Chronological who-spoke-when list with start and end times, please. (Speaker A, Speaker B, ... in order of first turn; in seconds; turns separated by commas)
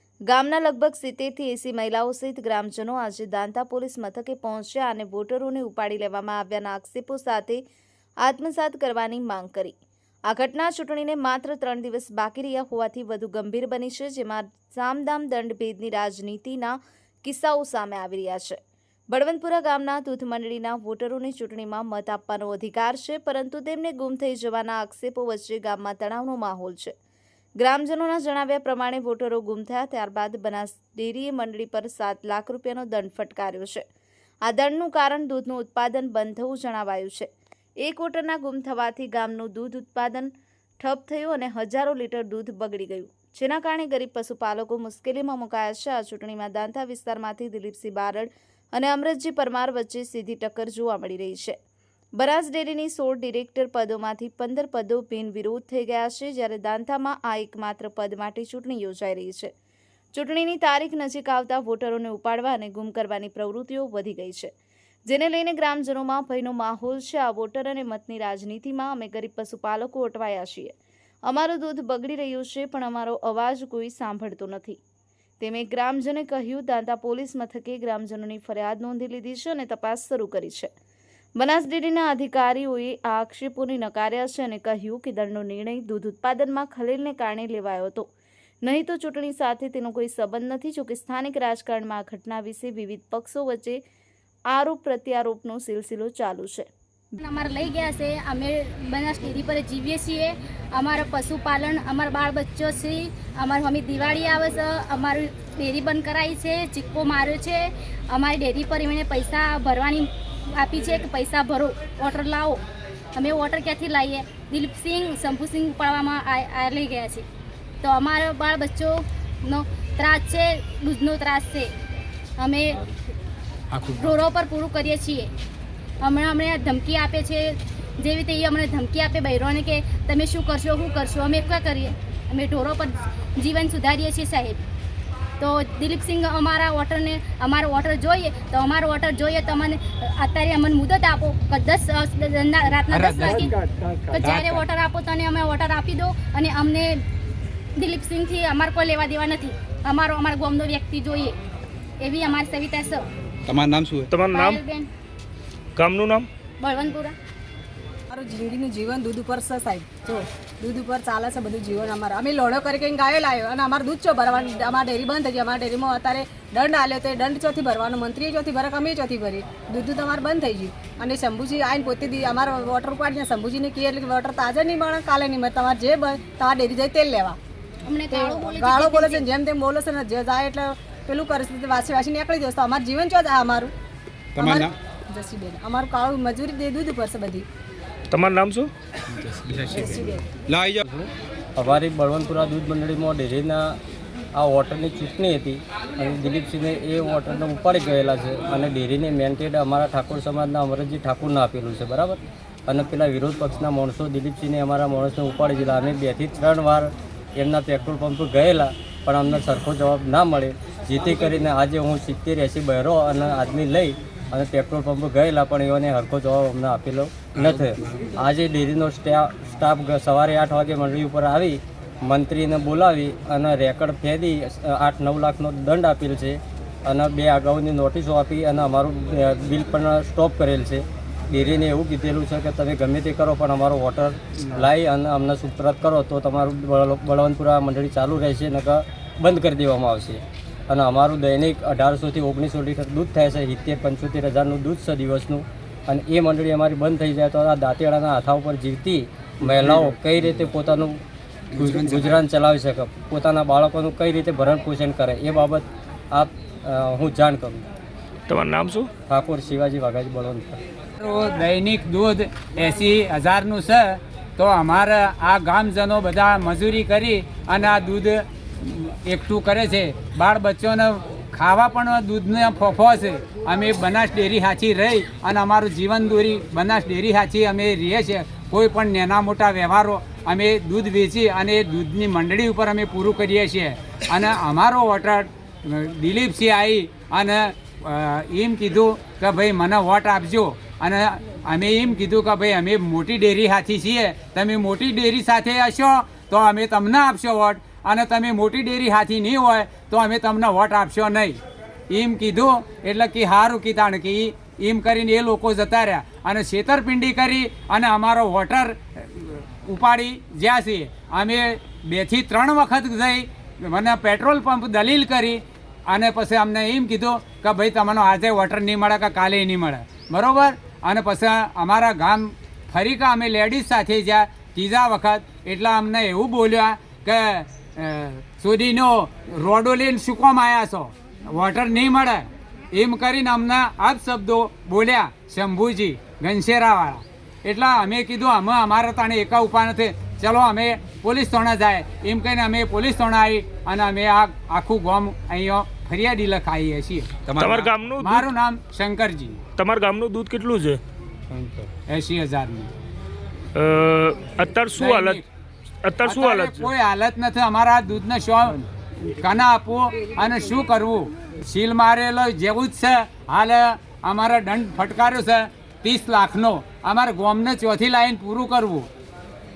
Speaker A: 0.3-7.6, Speaker A: 8.2-9.8, Speaker A: 10.3-18.6, Speaker A: 19.1-26.9, Speaker A: 27.6-33.8, Speaker A: 34.5-37.3, Speaker A: 37.8-51.6, Speaker A: 52.2-59.5, Speaker A: 60.1-64.5, Speaker A: 65.1-70.7, Speaker A: 71.3-74.8, Speaker A: 75.4-80.7, Speaker A: 81.4-88.1, Speaker A: 88.6-93.8, Speaker A: 94.5-96.7, Speaker B: 97.1-112.6, Speaker B: 113.2-117.3, Speaker B: 117.8-121.7, Speaker B: 122.4-122.8, Speaker B: 123.8-125.3, Speaker B: 126.0-134.6, Speaker B: 135.4-143.5, Speaker C: 142.9-143.4, Speaker B: 144.1-147.0, Speaker C: 144.2-144.6, Speaker B: 147.8-151.3, Speaker B: 152.0-153.0, Speaker D: 153.5-154.1, Speaker E: 154.1-154.6, Speaker B: 154.3-154.9, Speaker E: 155.8-156.3, Speaker B: 156.6-157.2, Speaker F: 158.1-177.4, Speaker B: 177.8-179.3, Speaker F: 178.1-183.7, Speaker D: 184.3-184.7, Speaker F: 184.3-187.4, Speaker E: 188.1-188.7, Speaker D: 189.1-190.8, Speaker F: 189.8-190.2, Speaker G: 190.8-193.8, Speaker G: 194.3-251.0, Speaker C: 249.6-249.9, Speaker G: 251.5-257.6, Speaker C: 251.6-252.2, Speaker E: 258.3-258.9, Speaker G: 259.1-260.6, Speaker C: 261.0-301.4, Speaker C: 301.9-347.2, Speaker D: 347.2-347.8, Speaker E: 347.4-348.3, Speaker C: 347.9-349.4, Speaker E: 349.6-350.8, Speaker C: 351.8-352.7, Speaker E: 353.6-355.2, Speaker C: 354.7-355.3, Speaker E: 355.8-356.7, Speaker C: 356.0-368.9